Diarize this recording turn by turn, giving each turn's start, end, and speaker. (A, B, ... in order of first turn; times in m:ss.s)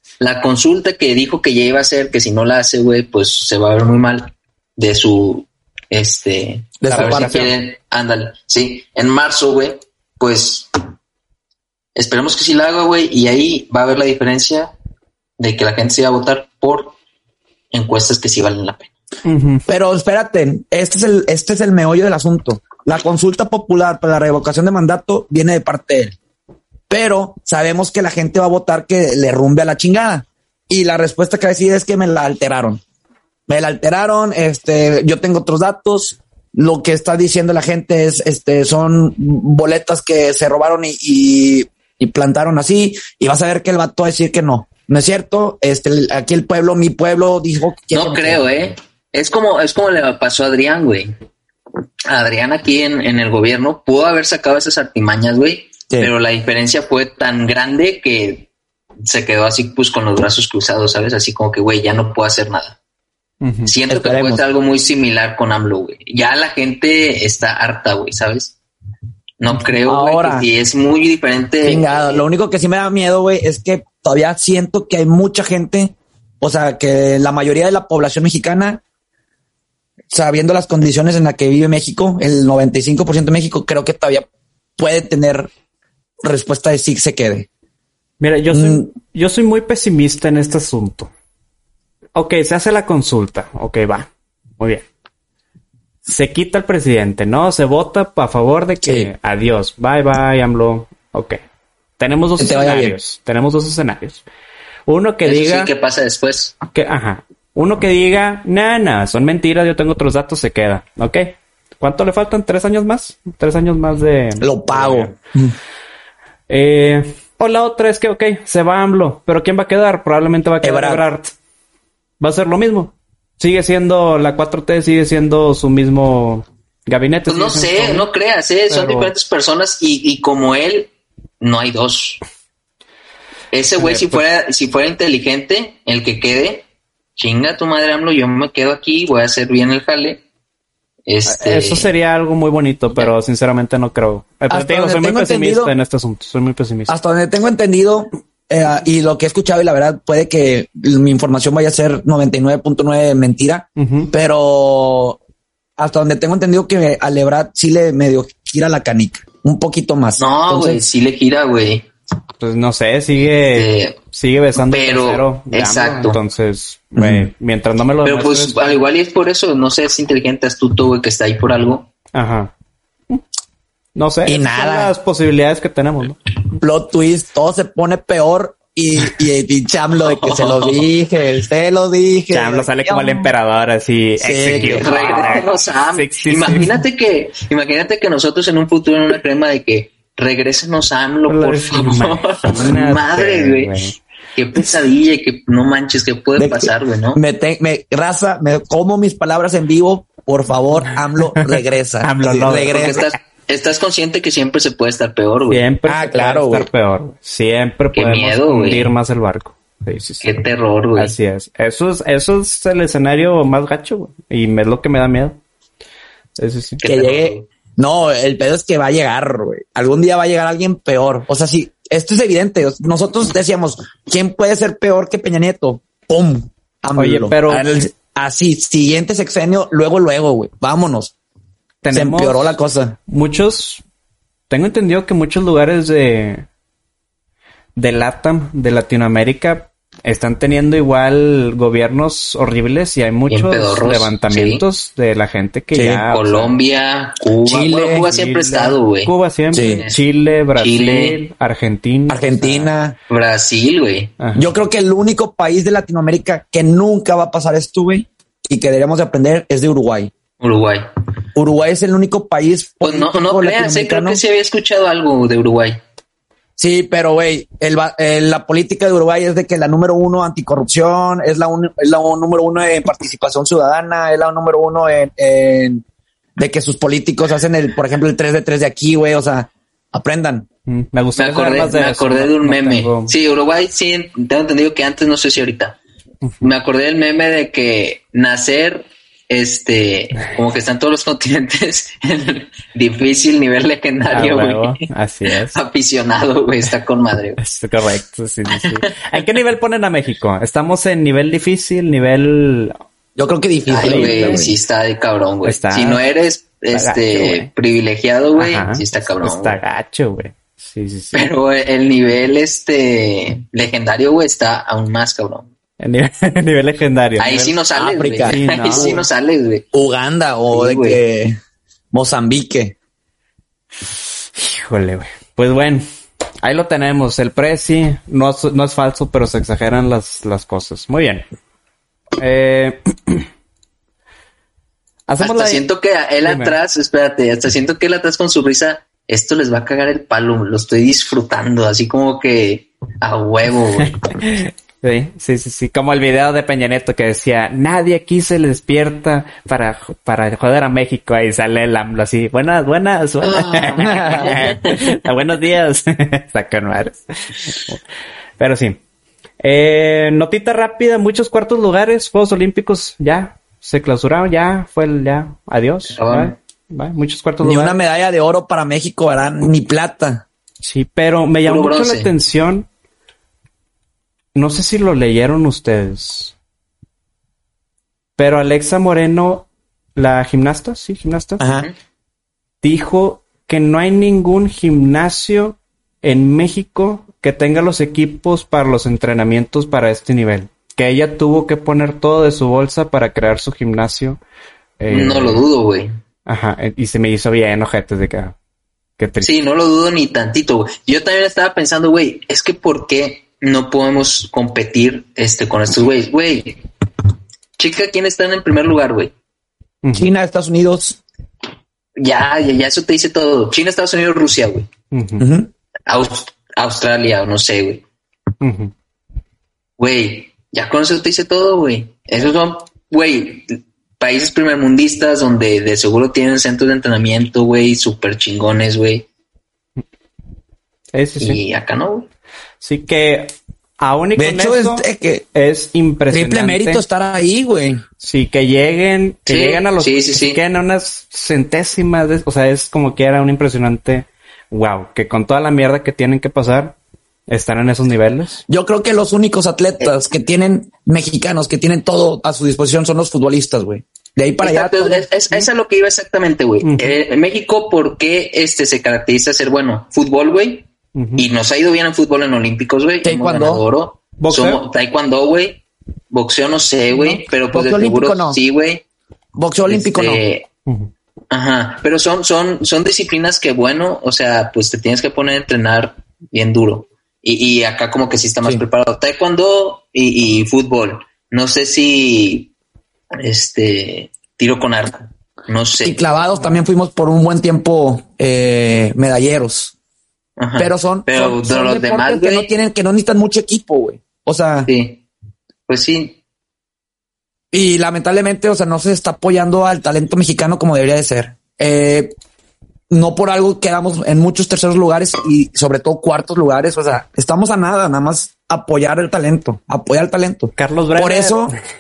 0:00.2-0:10.7 A
0:06.8-0:07.4 B
0:06.9-0:07.5 C
0:12.0-0:14.7 A
0:15.4-0:17.0 A
0:17.7-0:18.9 A
0:19.2-0:19.6 C
0:19.7-0:26.2 B
0:26.9-0:32.8 B
0:33.5-0:48.4 B
0:47.9-0:51.1 A
0:52.1-0:58.5 A
0:59.0-1:02.8 A
1:03.4-1:03.7 C
1:03.7-1:08.6 A
1:03.9-1:04.4 B
1:09.4-1:12.2 A
1:09.8-1:10.5 B
1:11.6-1:18.8 B
1:20.1-1:25.5 B
1:26.2-1:27.5 B
1:28.2-1:31.1 C
1:28.5-1:28.9 B
1:32.2-1:34.8 C
1:36.1-1:41.4 C
1:38.8-1:39.1 B
1:42.0-1:44.2 C
1:42.4-1:43.0 B
1:44.9-1:45.7 C
1:45.2-1:46.6 A
1:46.7-1:55.1 C
1:54.4-1:55.6 B
1:56.5-2:01.3 C
2:00.6-2:01.0 B
2:02.2-2:08.1 C
2:07.3-2:12.2 A
2:08.7-2:09.1 C
2:13.5-2:16.7 A
2:13.8-2:14.2 C
2:17.2-2:20.2 A
2:21.1-2:21.9 A
2:21.3-2:27.0 C
2:24.5-2:25.8 B
2:26.9-2:35.2 B
2:33.8-2:34.1 C
2:35.8-2:40.8 B
2:40.2-2:41.9 A
2:42.4-2:48.6 C
2:43.2-2:44.0 A
2:44.7-2:46.2 A
2:47.0-2:47.3 B
2:48.0-2:51.9 A
2:52.1-2:52.5 C
2:54.0-2:56.2 C
2:54.3-2:54.9 B
2:56.6-3:03.3 B
3:00.0-3:00.9 A
3:02.3-3:06.7 C
3:04.2-3:04.9 B
3:04.5-3:13.8 A
3:11.3-3:14.0 C
3:14.4-3:17.2 A
3:16.4-3:23.0 B
3:21.3-3:23.2 C
3:22.7-3:25.6 A
3:25.5-3:30.3 C
3:25.9-3:26.7 B
3:27.9-3:28.9 A
3:30.2-3:31.2 A
3:31.0-3:35.4 C
3:36.4-3:36.8 C
3:36.8-3:37.5 A
3:36.8-3:51.1 B
3:47.0-3:47.7 C
3:51.8-3:52.6 C
3:51.9-3:53.0 B
3:53.1-3:53.8 C
3:54.5-3:56.5 C
3:57.8-4:06.5 C
4:03.3-4:04.6 A
4:05.7-4:06.0 B
4:06.1-4:10.0 A
4:07.4-4:08.1 B
4:08.0-4:12.7 C
4:09.5-4:09.8 B
4:10.6-4:11.2 A
4:12.1-4:13.0 B
4:13.1-4:14.2 A
4:14.2-4:14.5 C
4:14.4-4:20.1 B
4:20.4-4:20.9 A
4:21.4-4:24.2 B
4:22.8-4:25.8 A
4:26.6-4:35.8 B
4:36.4-4:40.5 B
4:40.7-4:43.1 C
4:41.2-4:45.8 A
4:46.2-4:46.5 C
4:46.4-4:54.8 A
4:54.1-4:55.6 C
4:55.5-4:57.6 A
4:57.4-5:02.8 C
4:58.5-4:59.0 A
5:03.2-5:04.5 B
5:03.7-5:09.6 A
5:03.8-5:04.4 C
5:05.4-5:06.0 C
5:06.7-5:07.5 C
5:08.4-5:11.3 C
5:11.1-5:15.5 A
5:15.8-5:17.6 C
5:17.2-5:19.6 A
5:17.8-5:19.1 B
5:18.2-5:19.0 C
5:19.7-5:21.4 B
5:20.5-5:21.0 A
5:21.9-5:22.8 B
5:24.4-5:25.8 C
5:26.4-5:31.3 C
5:32.2-5:33.3 C
5:35.1-5:35.6 C
5:35.2-5:44.1 A
5:36.2-5:36.6 C
5:44.2-5:57.8 C
5:53.2-5:54.7 A
5:53.8-5:54.3 B
5:58.4-5:58.8 C
5:59.4-6:07.8 C
6:05.9-6:06.4 A
6:07.4-6:10.2 B
6:10.6-6:12.7 C
6:11.4-6:12.1 A
6:14.4-6:16.3 C
6:18.2-6:21.4 C
6:21.4-6:21.7 B
6:22.6-6:34.2 C
6:34.8-6:35.4 C
6:34.9-6:35.9 A
6:36.3-6:38.4 C
6:39.0-6:39.3 C
6:39.2-6:46.6 A
6:47.6-6:49.1 A
6:49.8-6:50.1 C
6:50.0-6:51.0 B
6:52.0-6:54.7 A
6:54.9-6:55.2 C
6:55.2-6:55.5 B
6:55.9-6:57.8 A
6:58.4-6:58.7 C
6:59.8-7:09.1 A
7:10.9-7:11.4 C
7:11.2-7:12.1 A
7:12.6-7:16.8 C
7:14.2-7:15.3 B
7:16.1-7:17.8 B
7:18.0-7:26.8 C
7:19.3-7:20.4 A
7:27.3-7:28.4 C
7:28.5-7:35.1 B
7:34.4-7:48.8 A
7:36.6-7:37.0 C
7:41.0-7:41.2 C
7:43.0-7:43.6 B
7:44.2-7:44.6 C
7:47.0-7:48.4 B
7:49.4-7:50.2 B
7:49.7-7:50.5 A
7:50.7-7:50.9 C
7:51.3-8:02.5 A
8:03.2-8:06.0 A
8:05.8-8:09.7 B
8:10.4-8:12.5 A
8:10.6-8:14.7 B
8:14.7-8:15.0 A
8:15.7-8:16.2 A
8:17.5-8:22.2 B
8:22.9-8:31.6 B
8:30.6-8:31.5 C